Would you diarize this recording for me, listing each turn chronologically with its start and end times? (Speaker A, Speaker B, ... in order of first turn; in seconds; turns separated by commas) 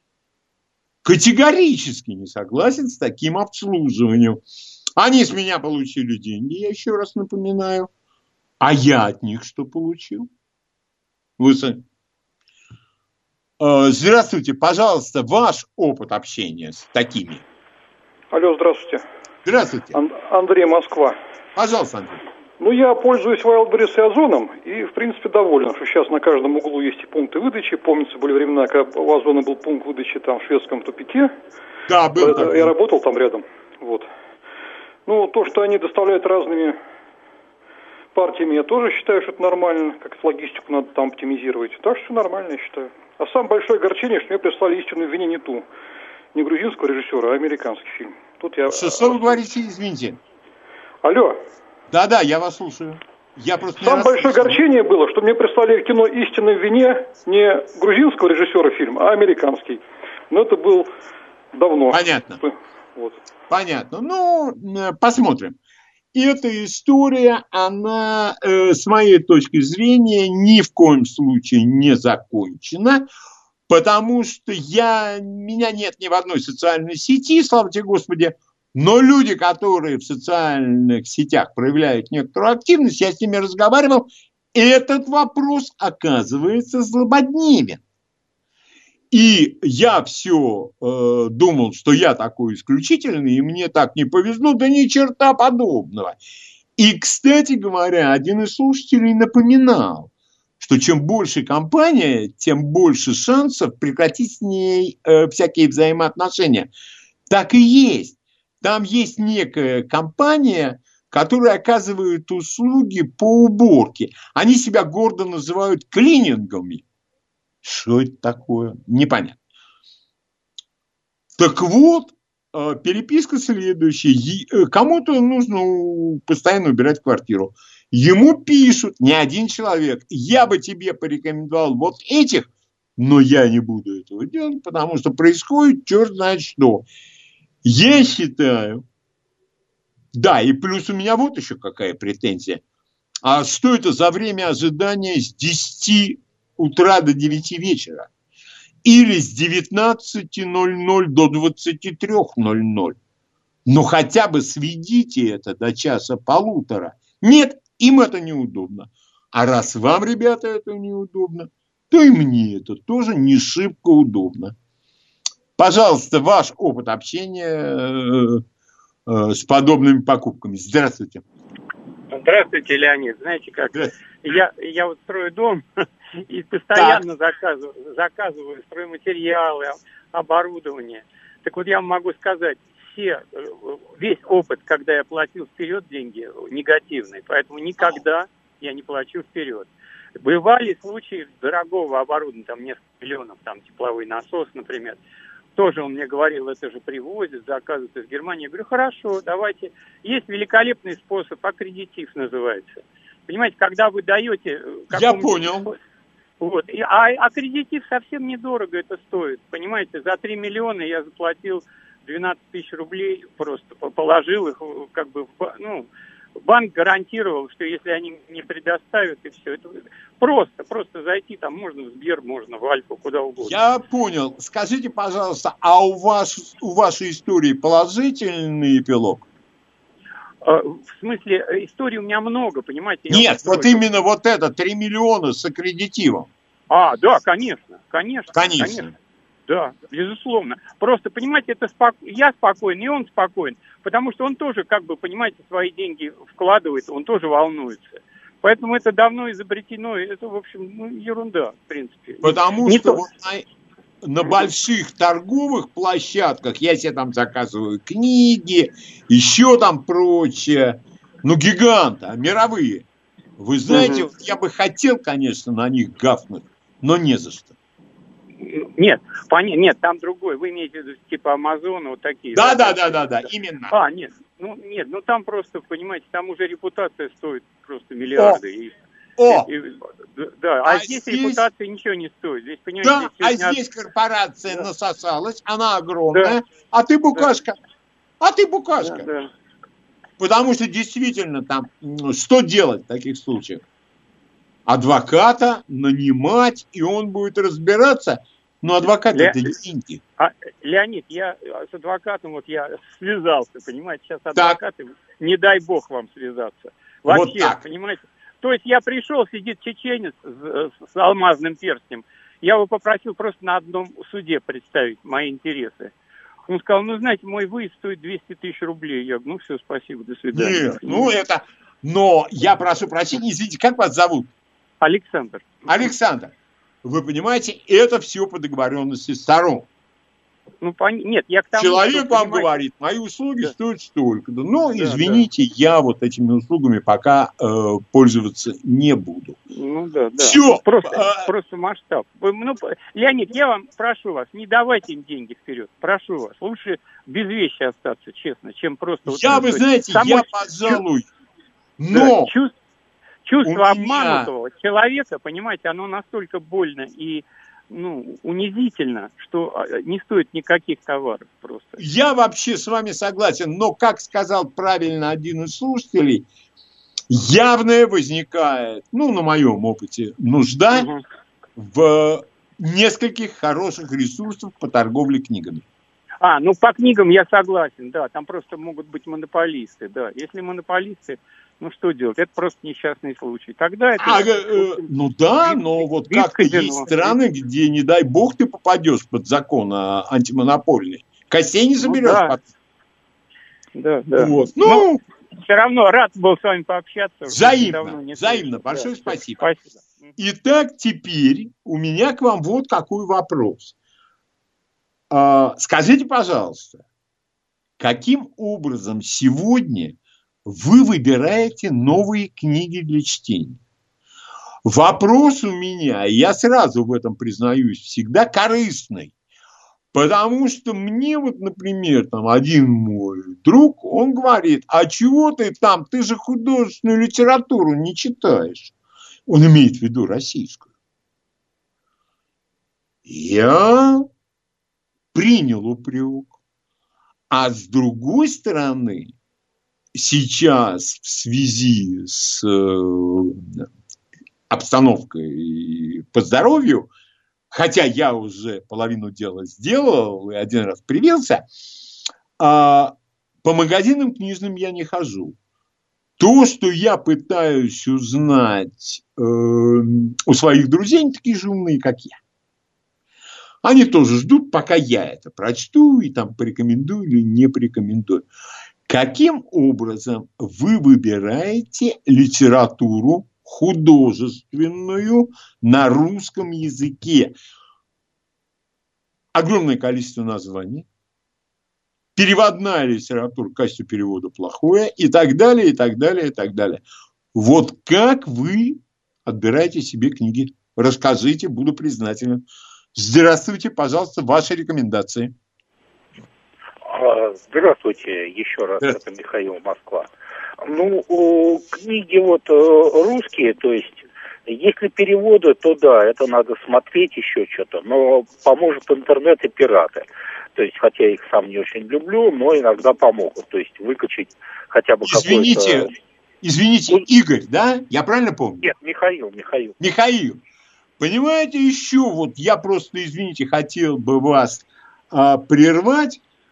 Speaker A: 1.0-4.4, Speaker A: 5.0-7.9, Speaker A: 8.6-10.3, Speaker A: 11.4-11.8, Speaker A: 13.6-17.4, Speaker B: 18.3-19.0, Speaker A: 19.4-20.0, Speaker B: 19.9-21.1, Speaker A: 21.6-22.2, Speaker B: 22.6-31.3, Speaker A: 31.9-32.7, Speaker B: 32.2-34.1, Speaker B: 35.0-36.8, Speaker B: 38.1-45.7, Speaker B: 46.3-49.4, Speaker A: 48.7-50.2, Speaker B: 51.0-51.4, Speaker A: 51.9-54.6, Speaker B: 53.8-60.9, Speaker B: 61.5-63.2, Speaker A: 61.9-62.4, Speaker A: 63.5-65.5, Speaker A: 66.1-73.1, Speaker A: 73.7-87.8, Speaker A: 89.1-96.2, Speaker A: 96.8-106.7, Speaker A: 107.3-116.8, Speaker A: 117.6-119.4, Speaker A: 121.4-136.8, Speaker A: 137.6-138.8, Speaker A: 140.1-142.6, Speaker A: 143.2-148.1, Speaker A: 148.8-153.0, Speaker A: 153.7-164.5, Speaker A: 165.6-168.4, Speaker A: 169.1-171.2, Speaker C: 172.1-175.7, Speaker C: 176.2-195.0, Speaker A: 176.7-177.0, Speaker C: 195.6-205.7, Speaker A: 204.9-205.7, Speaker C: 206.4-215.9, Speaker C: 216.4-223.6, Speaker A: 223.4-229.3, Speaker C: 230.4-233.8, Speaker A: 233.1-236.3, Speaker C: 236.7-238.9, Speaker A: 238.3-238.9, Speaker C: 239.5-253.0, Speaker A: 252.2-253.4, Speaker A: 254.0-262.8, Speaker A: 263.4-267.5, Speaker C: 263.7-264.1, Speaker C: 268.4-273.1, Speaker A: 272.3-273.8, Speaker C: 273.7-278.8, Speaker A: 278.1-278.4, Speaker A: 279.2-279.5, Speaker C: 279.3-283.6, Speaker A: 280.6-281.4, Speaker A: 282.8-287.5, Speaker C: 286.1-286.4, Speaker A: 288.2-289.1, Speaker C: 288.8-289.3, Speaker A: 290.2-293.6, Speaker A: 294.7-300.0, Speaker C: 299.1-299.5, Speaker C: 300.2-315.9, Speaker A: 304.3-304.6, Speaker A: 307.1-307.6, Speaker C: 316.5-321.1, Speaker A: 320.3-324.3, Speaker C: 324.8-325.9, Speaker A: 325.7-326.3, Speaker A: 326.8-329.7, Speaker C: 330.6-332.6, Speaker A: 331.6-339.4, Speaker C: 334.8-335.2, Speaker C: 339.5-350.8, Speaker A: 340.2-341.3, Speaker A: 349.1-351.1, Speaker A: 351.8-352.3, Speaker C: 351.9-352.5, Speaker C: 353.2-361.8, Speaker A: 353.4-354.3, Speaker A: 361.8-366.2, Speaker A: 367.1-370.9, Speaker C: 370.7-371.0, Speaker A: 371.6-375.6, Speaker C: 376.2-384.9, Speaker A: 384.0-392.4, Speaker C: 385.4-387.2, Speaker C: 391.8-392.4, Speaker C: 393.7-394.9, Speaker A: 394.1-395.0, Speaker C: 395.4-400.1, Speaker A: 397.3-399.5, Speaker A: 400.1-403.7, Speaker A: 405.1-406.8, Speaker A: 407.8-413.6, Speaker A: 414.6-419.1, Speaker A: 419.9-428.7, Speaker A: 429.3-430.7, Speaker A: 433.1-434.1, Speaker A: 435.1-436.3, Speaker A: 437.3-439.1, Speaker A: 439.9-443.6, Speaker A: 444.5-446.9, Speaker A: 447.5-451.4, Speaker A: 452.4-455.4, Speaker A: 456.2-462.2, Speaker A: 463.6-468.2, Speaker A: 468.9-477.3, Speaker A: 479.3-480.9, Speaker A: 482.1-486.8, Speaker A: 487.3-492.4, Speaker A: 492.9-495.3, Speaker D: 496.9-500.1, Speaker D: 500.6-515.9, Speaker A: 515.0-515.9, Speaker A: 516.4-518.7, Speaker D: 518.6-519.8, Speaker A: 519.8-520.4, Speaker A: 521.0-526.2